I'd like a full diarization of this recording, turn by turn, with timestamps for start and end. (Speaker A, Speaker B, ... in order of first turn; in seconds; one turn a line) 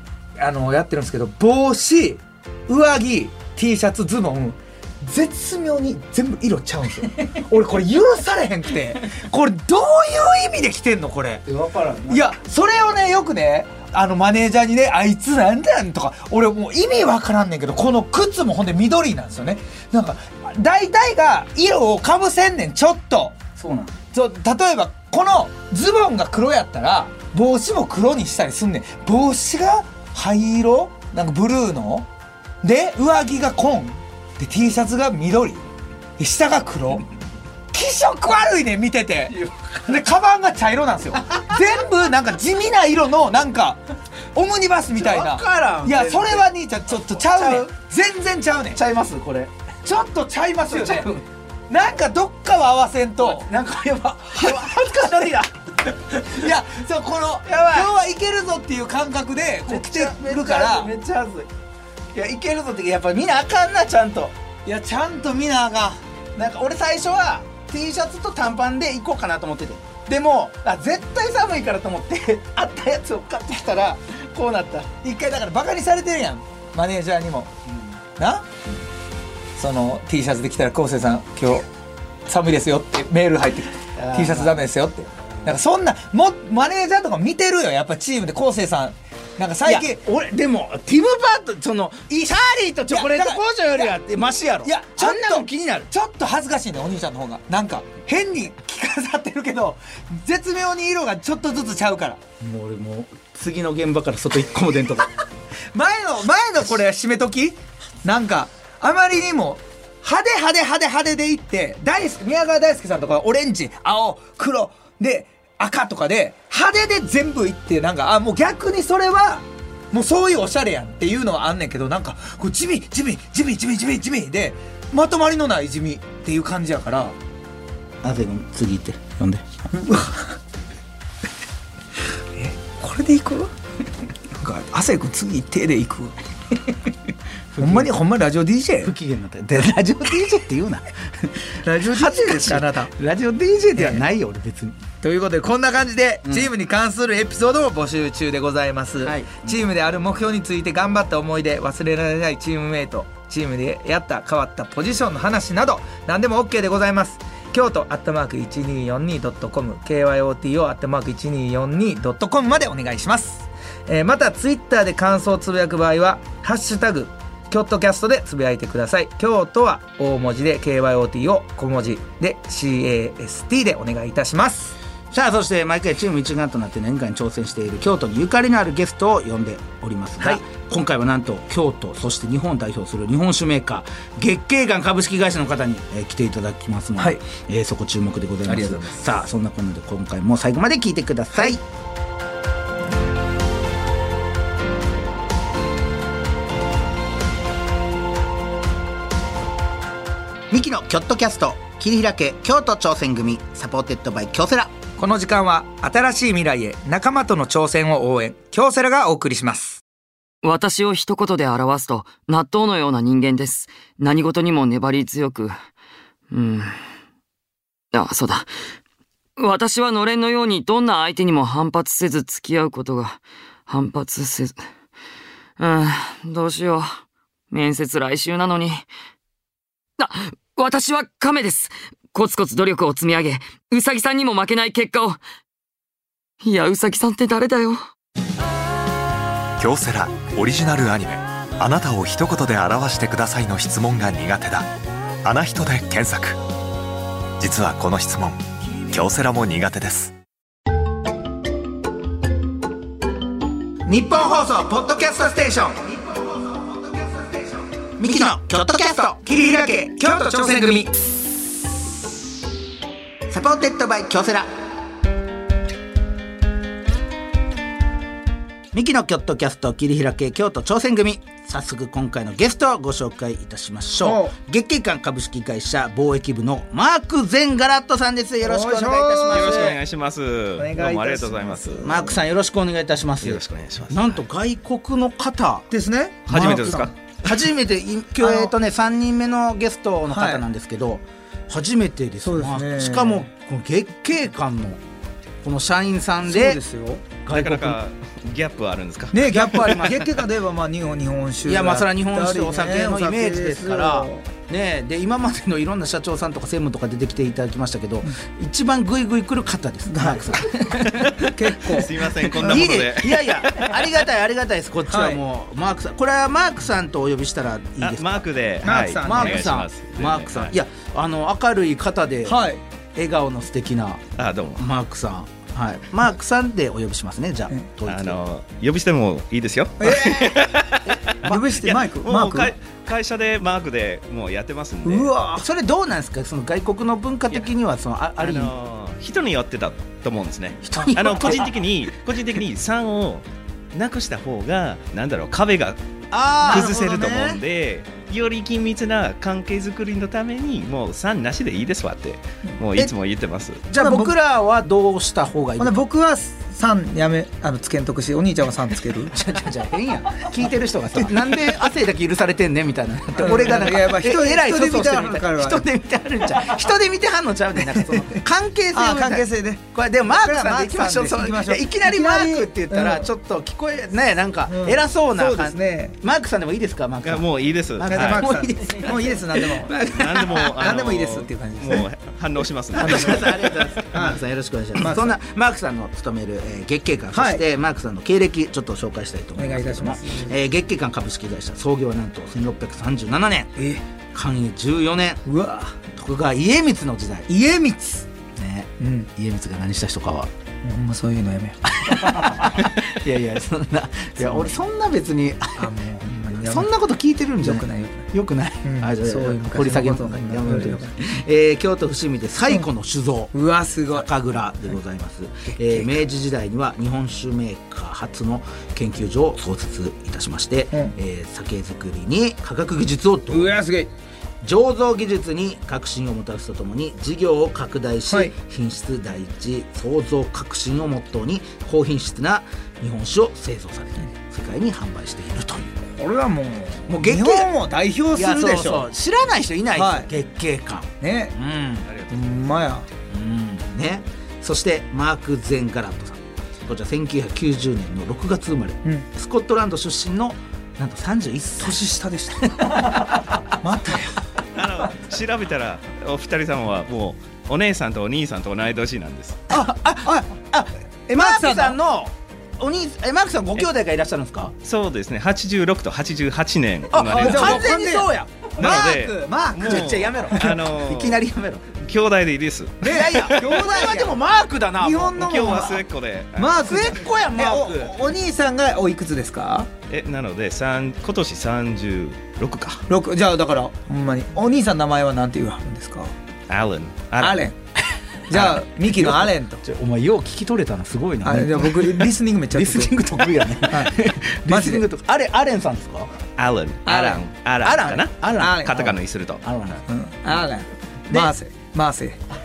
Speaker A: 0.4-11.4
Speaker B: 11.4-12.3
Speaker A: 12.1-32.1
Speaker A: 32.6-35.6
Speaker A: 36.2-37.0
Speaker A: 37.7-43.8
Speaker B: 39.3-39.7
Speaker A: 44.3-48.8
Speaker B: 44.9-46.5
Speaker B: 47.1-47.7
Speaker B: 48.7-49.5
Speaker A: 49.8-51.1
Speaker B: 50.6-51.2
Speaker A: 51.7-53.5
Speaker B: 53.2-56.2
Speaker A: 54.4-54.6
Speaker A: 56.1-60.9
Speaker B: 57.4-57.9
Speaker B: 59.6-61.5
Speaker B: 62.1-64.3
Speaker A: 64.7-66.0
Speaker B: 66.3-75.0
Speaker A: 75.0-77.5
Speaker A: 78.2-78.4
Speaker A: 79.6-81.7
Speaker A: 82.2-90.0
Speaker B: 84.0-84.7
Speaker B: 89.6-95.9
Speaker A: 92.9-93.9
Speaker A: 94.6-102.2
Speaker B: 102.4-105.1
Speaker A: 105.7-127.1
Speaker B: 128.0-129.4
Speaker A: 129.7-130.4
Speaker A: 132.4-133.5
Speaker A: 134.3-136.2
Speaker B: 137.5-137.9
Speaker A: 137.6-138.9
Speaker B: 138.8-144.8
Speaker A: 141.6-142.9
Speaker A: 145.0-174.7
Speaker B: 146.2-146.5
Speaker B: 149.0-149.6
Speaker B: 175.1-191.6
Speaker A: 188.4-189.0
Speaker B: 200.5-204.7
Speaker A: 205.0-209.8
Speaker C: 210.4-215.6
Speaker C: 216.3-216.8
Speaker C: 217.9-218.5
Speaker C: 219.4-224.6
Speaker C: 225.6-227.0
Speaker C: 227.5-228.9
Speaker C: 230.0-235.2
Speaker C: 236.4-237.8
Speaker D: 239.6-244.7
Speaker D: 245.2-246.4
Speaker D: 247.4-250.1
Speaker B: 253.8-256.8
Speaker B: 258.0-260.9
Speaker B: 263.3-264.5
Speaker B: 268.7-279.8
Speaker A: 274.0-274.3
Speaker A: 278.4-279.7
Speaker E: 279.3-281.9
Speaker A: 280.6-282.1
Speaker B: 281.8-285.7
Speaker E: 283.2-284.2
Speaker A: 285.7-286.9
Speaker E: 286.3-286.9
Speaker B: 286.3-294.8
Speaker A: 288.2-288.5
Speaker A: 290.1-290.4
Speaker A: 292.2-293.3
Speaker B: 295.4-296.6
Speaker A: 296.2-297.0
Speaker B: 297.2-297.8
Speaker E: 297.3-299.4
Speaker A: 299.1-304.2
Speaker B: 299.2-300.1
Speaker B: 301.4-311.1
Speaker A: 309.9-312.7
Speaker E: 310.9-313.9
Speaker B: 312.2-318.2
Speaker A: 314.9-315.2
Speaker E: 317.8-320.5
Speaker A: 318.6-319.5
Speaker B: 319.0-322.4
Speaker A: 322.2-322.6
Speaker B: 322.9-324.0
Speaker E: 324.2-324.7
Speaker B: 324.6-328.2
Speaker E: 327.9-335.1
Speaker A: 329.8-330.4
Speaker A: 331.2-332.5
Speaker A: 334.8-335.4
Speaker B: 335.4-338.5
Speaker E: 338.2-345.8
Speaker B: 340.6-341.5
Speaker B: 346.1-346.7
Speaker E: 346.4-353.6
Speaker A: 346.4-347.4
Speaker B: 353.7-355.8
Speaker A: 353.7-354.1
Speaker A: 355.6-359.1
Speaker B: 359.1-380.5
Speaker A: 363.1-365.6
Speaker A: 367.7-373.1
Speaker A: 374.5-375.9
Speaker E: 377.0-378.2
Speaker A: 377.9-379.8
Speaker E: 379.9-383.6
Speaker A: 380.6-381.8
Speaker B: 382.7-393.6
Speaker A: 382.8-383.3
Speaker A: 383.9-384.2
Speaker A: 384.8-385.1
Speaker A: 387.1-387.4
Speaker A: 389.4-390.4
Speaker A: 393.6-393.8
Speaker B: 394.1-395.2
Speaker A: 395.2-395.7
Speaker B: 395.9-397.3
Speaker A: 397.3-398.0
Speaker B: 398.4-400.3
Speaker A: 398.8-399.1
Speaker A: 400.6-402.4
Speaker B: 401.7-405.7
Speaker A: 404.2-404.5
Speaker A: 405.6-406.7
Speaker B: 406.3-413.3
Speaker A: 407.4-408.1
Speaker A: 408.6-410.9
Speaker A: 413.3-414.1
Speaker B: 413.9-423.5
Speaker A: 415.4-416.0
Speaker A: 423.3-423.9
Speaker B: 424.4-435.8
Speaker A: 435.9-438.9
Speaker B: 436.9-437.5
Speaker B: 438.1-441.9
Speaker A: 439.7-440.1
Speaker A: 441.0-441.4
Speaker E: 441.9-442.2
Speaker A: 442.1-442.9
Speaker B: 443.1-451.9
Speaker A: 451.6-454.2
Speaker B: 452.5-453.4
Speaker E: 454.5-459.4
Speaker A: 459.5-460.3
Speaker B: 459.5-464.5
Speaker A: 461.1-461.8
Speaker E: 464.6-467.7
Speaker B: 466.9-468.7
Speaker A: 467.1-469.9
Speaker E: 468.6-471.2
Speaker B: 469.6-471.7
Speaker E: 471.8-473.1
Speaker A: 472.8-474.2
Speaker B: 472.8-475.6
Speaker A: 474.8-475.8
Speaker E: 475.1-476.7
Speaker A: 476.4-479.7
Speaker B: 476.6-477.9
Speaker E: 479.9-482.8
Speaker A: 482.9-486.1
Speaker E: 486.5-487.5
Speaker A: 487.2-487.5
Speaker A: 488.3-489.6
Speaker B: 488.3-496.1
Speaker A: 491.2-493.9
Speaker A: 494.5-494.8
Speaker E: 496.4-499.4
Speaker A: 496.9-497.2
Speaker B: 497.6-499.8
Speaker A: 498.4-498.8
Speaker A: 499.9-502.2